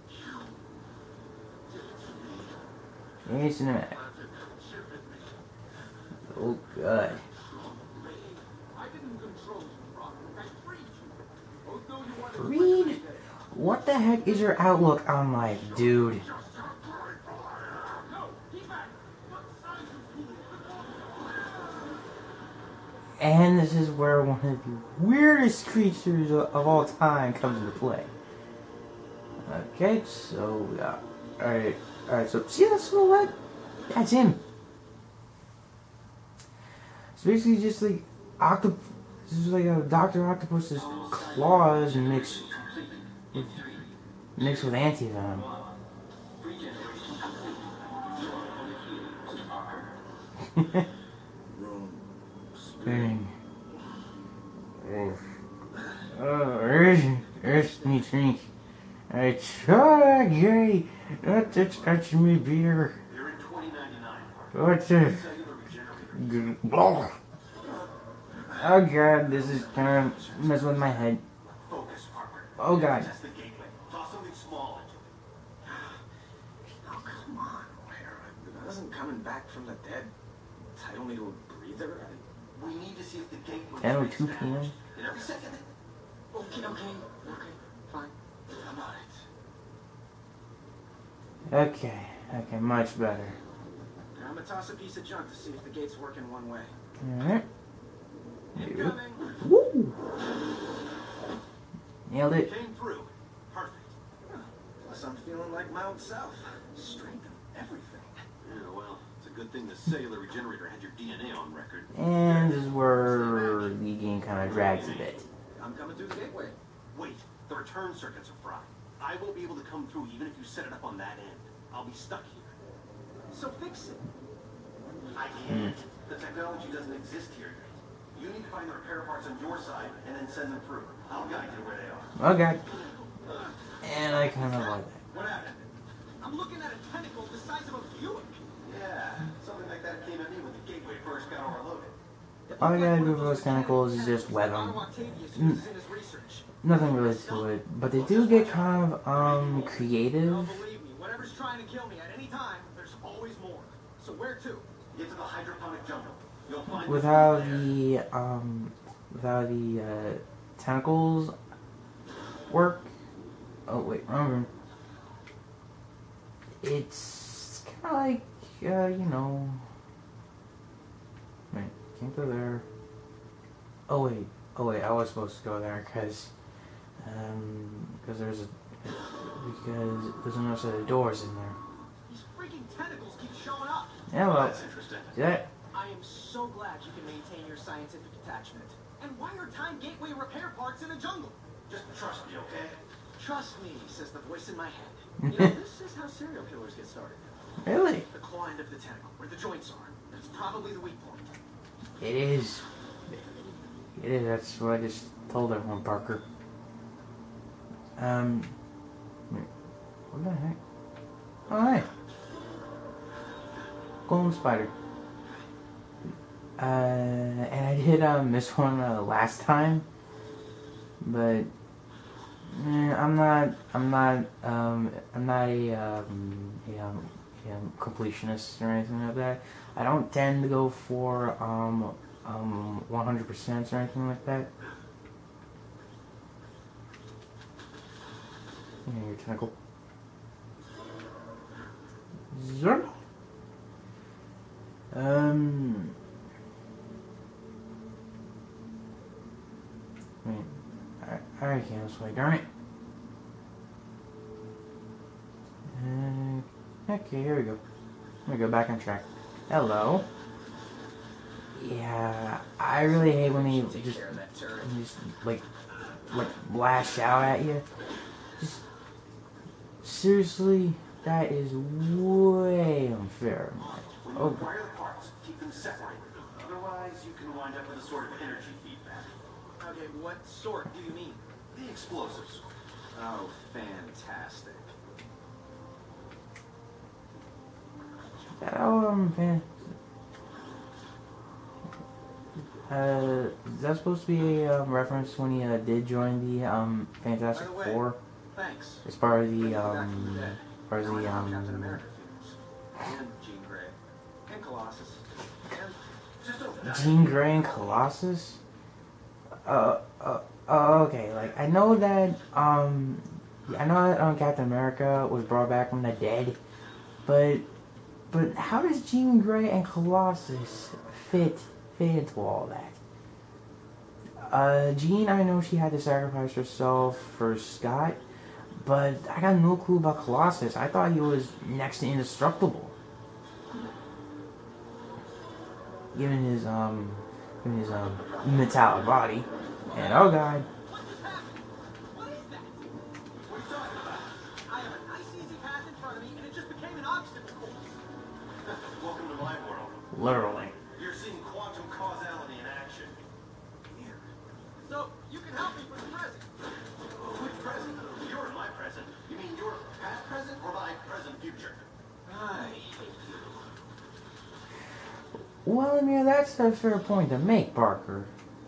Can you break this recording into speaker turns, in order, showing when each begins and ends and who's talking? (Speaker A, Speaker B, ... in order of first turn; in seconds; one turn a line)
Speaker A: 1.9-2.5
Speaker B: 3.2-4.0
Speaker A: 4.3-5.3
Speaker B: 6.3-7.2
Speaker A: 7.9-11.1
Speaker A: 11.6-13.2
Speaker B: 12.3-13.0
Speaker B: 13.5-16.2
Speaker A: 14.4-14.8
Speaker A: 16.3-16.8
Speaker C: 16.8-17.9
Speaker A: 18.0-21.5
Speaker B: 23.2-28.1
Speaker B: 29.4-33.3
Speaker B: 33.9-34.4
Speaker B: 37.1-42.5
Speaker C: 40.8-43.6
Speaker B: 44.4-45.5
Speaker A: 46.4-47.1
Speaker A: 48.5-49.7
Speaker B: 50.5-50.9
Speaker B: 52.8-53.3
Speaker B: 54.8-55.2
Speaker B: 56.1-58.5
Speaker B: 59.1-63.0
Speaker C: 63.1-66.6
Speaker B: 64.5-65.2
Speaker B: 66.1-67.2
Speaker B: 68.5-71.2
Speaker C: 69.3-70.7
Speaker C: 71.4-75.1
Speaker B: 72.6-73.1
Speaker A: 75.6-76.0
Speaker A: 76.8-80.1
Speaker A: 80.7-82.2
Speaker C: 82.5-85.6
Speaker B: 83.8-84.8
Speaker A: 86.3-89.2
Speaker B: 91.5-93.4
Speaker A: 94.1-96.7
Speaker B: 97.0-97.4
Speaker A: 98.5-99.3
Speaker B: 98.5-100.0
Speaker B: 102.1-102.5
Speaker C: 102.3-103.9
Speaker A: 104.2-108.2
Speaker C: 108.4-112.5
Speaker B: 111.9-115.2
Speaker A: 112.8-113.7
Speaker C: 114.4-115.2
Speaker A: 115.6-116.5
Speaker C: 116.9-122.5
Speaker A: 123.3-124.0
Speaker C: 125.1-132.2
Speaker B: 125.5-125.8
Speaker B: 132.2-132.6
Speaker A: 132.6-134.6
Speaker B: 133.8-135.0
Speaker C: 135.1-135.6
Speaker A: 136.2-138.4
Speaker C: 138.6-141.9
Speaker A: 142.5-146.4
Speaker B: 142.6-145.6
Speaker B: 146.6-150.6
Speaker C: 147.0-149.9
Speaker A: 150.2-154.7
Speaker C: 154.9-157.7
Speaker B: 156.8-161.3
Speaker B: 162.5-162.9
Speaker B: 163.7-164.5
Speaker B: 166.6-169.6
Speaker B: 171.5-172.6
Speaker B: 173.9-176.3
Speaker B: 177.0-181.6
Speaker A: 182.1-184.0
Speaker B: 184.1-184.6
Speaker C: 184.2-185.2
Speaker B: 185.1-185.5
Speaker A: 185.7-191.4
Speaker C: 191.7-192.8
Speaker A: 193.2-197.4
Speaker B: 195.2-195.5
Speaker B: 197.6-198.1
Speaker A: 198.1-201.3
Speaker B: 202.0-202.6
Speaker B: 203.9-206.2
Speaker B: 208.0-208.5
Speaker B: 210.1-210.6
Speaker B: 211.5-211.9
Speaker B: 214.1-214.7
Speaker B: 216.6-219.8
Speaker B: 221.0-221.5
Speaker B: 222.5-234.5
Speaker B: 238.8-239.5
Speaker B: 242.3-243.0
Speaker B: 244.9-245.9
Speaker B: 250.2-252.4
Speaker B: 255.7-257.6
Speaker B: 258.2-260.0
Speaker B: 261.5-265.4
Speaker A: 262.8-264.7
Speaker B: 266.1-267.6
Speaker B: 268.4-268.6
Speaker B: 269.8-274.5
Speaker C: 273.9-279.2
Speaker A: 279.6-281.2
Speaker C: 281.5-282.5
Speaker A: 282.9-284.7
Speaker B: 288.4-289.5
Speaker B: 292.7-298.0
Speaker A: 297.3-303.7
Speaker B: 298.8-301.8
Speaker A: 304.2-306.3
Speaker C: 306.2-307.9
Speaker B: 306.6-308.4
Speaker B: 309.4-316.4
Speaker B: 317.1-317.4
Speaker B: 318.1-322.8
Speaker B: 324.2-328.0
Speaker B: 328.6-332.7
Speaker B: 335.9-340.5
Speaker A: 339.7-342.6
Speaker C: 343.2-344.1
Speaker A: 344.4-347.8
Speaker C: 348.4-353.0
Speaker B: 349.9-350.6
Speaker A: 353.7-356.3
Speaker C: 356.9-361.7
Speaker A: 362.0-363.4
Speaker B: 365.4-368.1